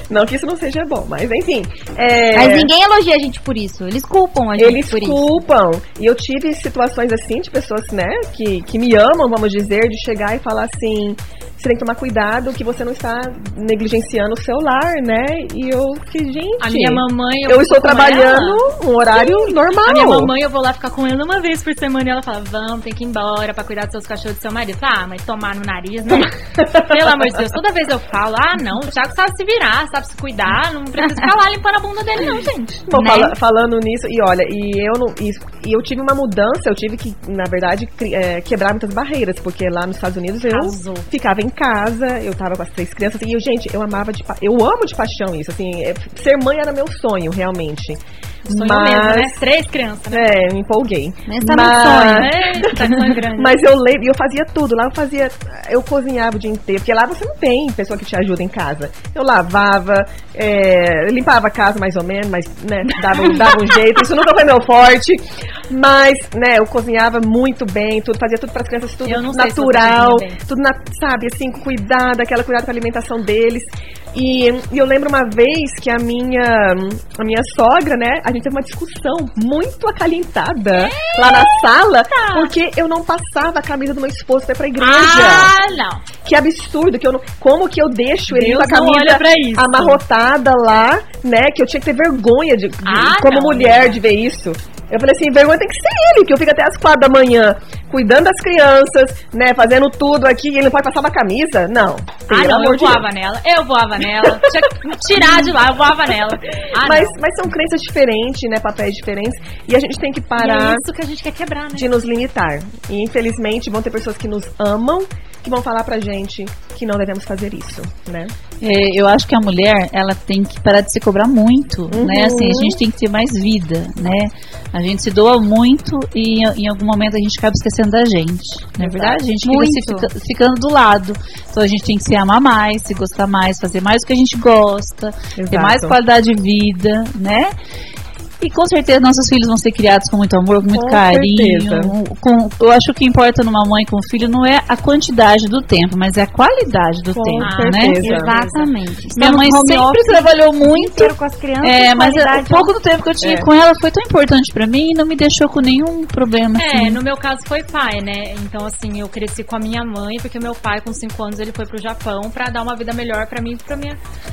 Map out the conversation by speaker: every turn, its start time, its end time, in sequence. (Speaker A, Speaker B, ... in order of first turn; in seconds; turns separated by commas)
Speaker A: 0.1-2.7, Speaker B: 2.3-5.4, Speaker A: 4.5-20.3, Speaker C: 16.6-32.8, Speaker A: 26.6-27.1, Speaker A: 32.9-49.4, Speaker B: 32.9-33.3, Speaker C: 40.5-41.1, Speaker C: 48.5-50.3, Speaker A: 50.1-85.5, Speaker B: 51.3-52.9, Speaker C: 51.8-53.6, Speaker C: 69.0-70.4, Speaker C: 80.7-82.5, Speaker C: 84.8-86.0, Speaker A: 86.2-103.1, Speaker C: 88.3-90.0, Speaker C: 92.8-94.0, Speaker C: 102.3-107.2, Speaker A: 104.2-104.5, Speaker A: 105.1-105.5, Speaker A: 106.8-110.8, Speaker C: 110.4-111.9, Speaker A: 111.7-118.3, Speaker D: 118.6-137.5, Speaker A: 121.9-122.8, Speaker A: 128.8-129.2, Speaker B: 129.4-130.1, Speaker A: 135.4-136.0, Speaker D: 138.4-148.1, Speaker A: 140.7-141.9, Speaker A: 147.1-148.3, Speaker C: 147.4-148.7, Speaker B: 148.0-152.7, Speaker D: 149.2-157.0, Speaker A: 153.2-153.5, Speaker C: 156.6-164.0